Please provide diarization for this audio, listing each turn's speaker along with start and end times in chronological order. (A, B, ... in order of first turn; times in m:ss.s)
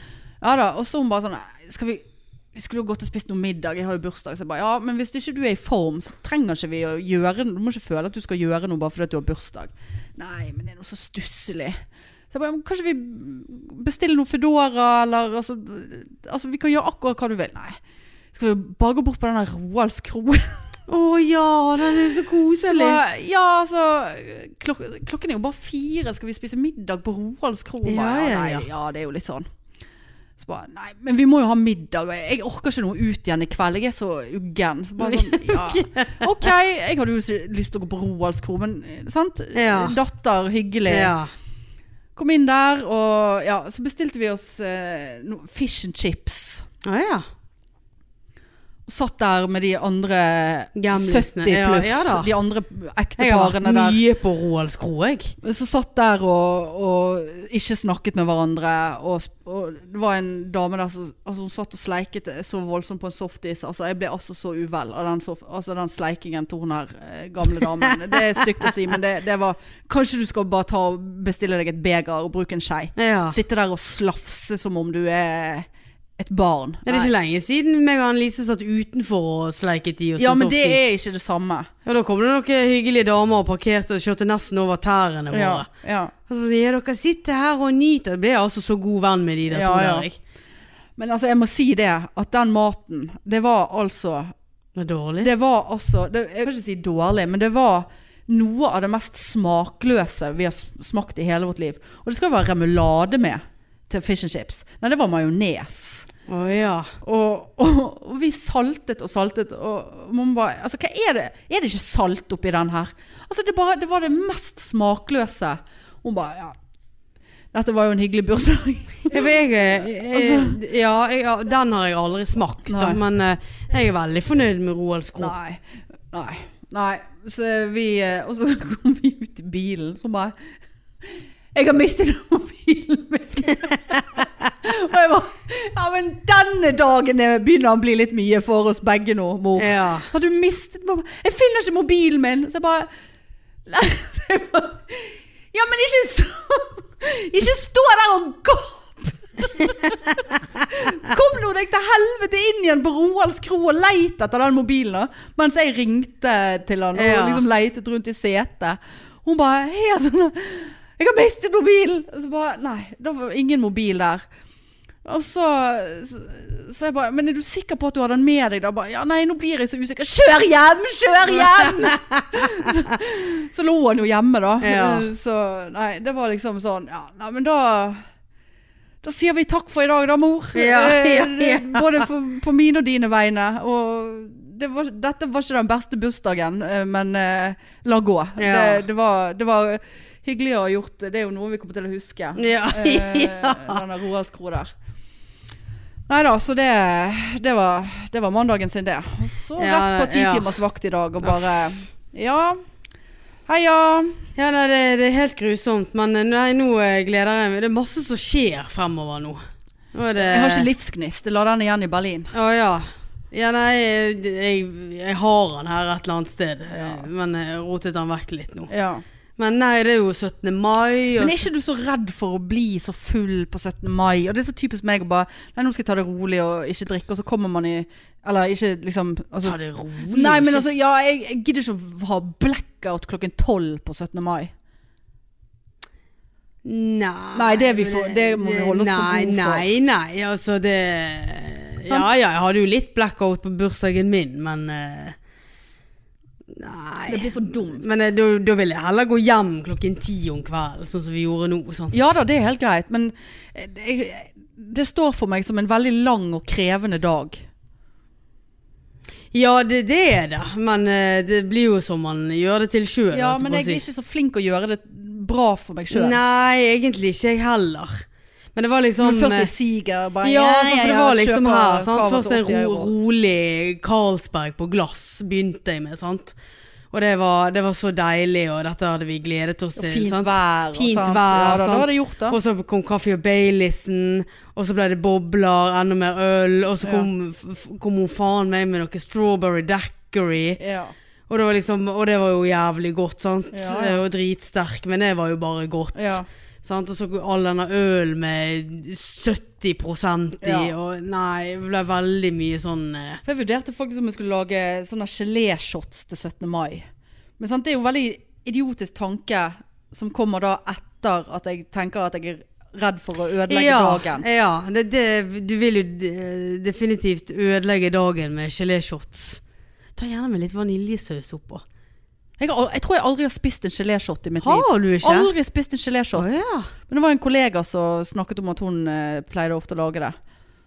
0:00.4-0:11.8 A
0:12.3-0:17.8 A
0:18.3-0:20.6 A
0:20.9-0:23.0 B
0:22.6-0:29.5 A
0:27.8-0:28.7 B
0:30.4-0:41.2 A
0:35.0-0:36.5 B
0:39.5-0:40.0 B
0:40.9-0:41.3 B
0:42.2-0:46.6 A
0:46.8-0:47.2 B
0:48.9-0:54.0 A
0:50.8-0:52.3 B
0:53.2-0:55.4 B
0:55.4-1:15.7 A
1:07.6-1:08.7 B
1:13.0-1:13.4 B
1:16.2-1:17.1 A
1:16.9-1:20.8 B
1:20.2-1:21.7 A
1:21.8-1:25.7 B
1:25.3-1:26.1 A
1:26.3-1:30.2 B
1:29.5-1:30.1 A
1:31.0-1:34.3 A
1:34.8-1:35.3 B
1:35.2-1:46.1 A
1:46.3-1:47.0 B
1:47.0-1:56.6 A
1:57.5-2:00.6 A
1:59.1-2:05.3 B
2:02.7-2:03.0 A
2:05.2-2:10.4 A
2:11.6-2:22.9 A
2:19.6-2:20.1 B
2:23.7-2:44.2 A
2:37.0-2:37.4 B
2:45.0-2:58.0 A
2:51.3-2:52.7 B
2:54.6-2:55.1 B
2:59.0-3:14.7 A
3:00.6-3:02.1 B
3:08.4-3:08.8 B
3:12.4-3:13.8 B
3:16.1-3:22.6 A
3:19.6-3:20.6 B
3:23.5-3:24.2 A
3:24.4-3:29.4 B
3:29.9-3:30.7 B
3:30.2-3:32.3 A
3:32.3-3:38.7 B
3:36.7-3:37.0 A
3:38.7-3:39.0 A
3:39.4-3:41.4 B
3:41.2-3:54.5 A
3:49.4-3:50.6 B
3:56.6-4:05.2 B
3:57.4-3:59.6 A
4:06.5-4:12.1 B
4:07.1-4:07.9 A
4:11.9-4:17.5 A
4:19.3-4:23.8 B
4:23.1-4:26.2 A
4:25.9-4:29.5 B
4:29.0-4:32.9 A
4:30.2-4:36.4 B
4:36.9-4:50.6 B
4:39.8-4:42.4 A
4:46.8-4:47.1 A
4:50.6-4:50.9 A
4:51.3-5:03.2 B
4:53.5-4:54.0 A
4:56.0-4:56.3 A
5:00.4-5:00.7 A
5:03.2-5:06.8 A
5:07.4-5:14.2 A
5:13.5-5:19.4 B
5:20.0-5:21.6 B
5:22.4-5:26.4 A
5:24.4-5:25.3 B
5:26.2-5:26.7 B
5:26.9-5:30.2 A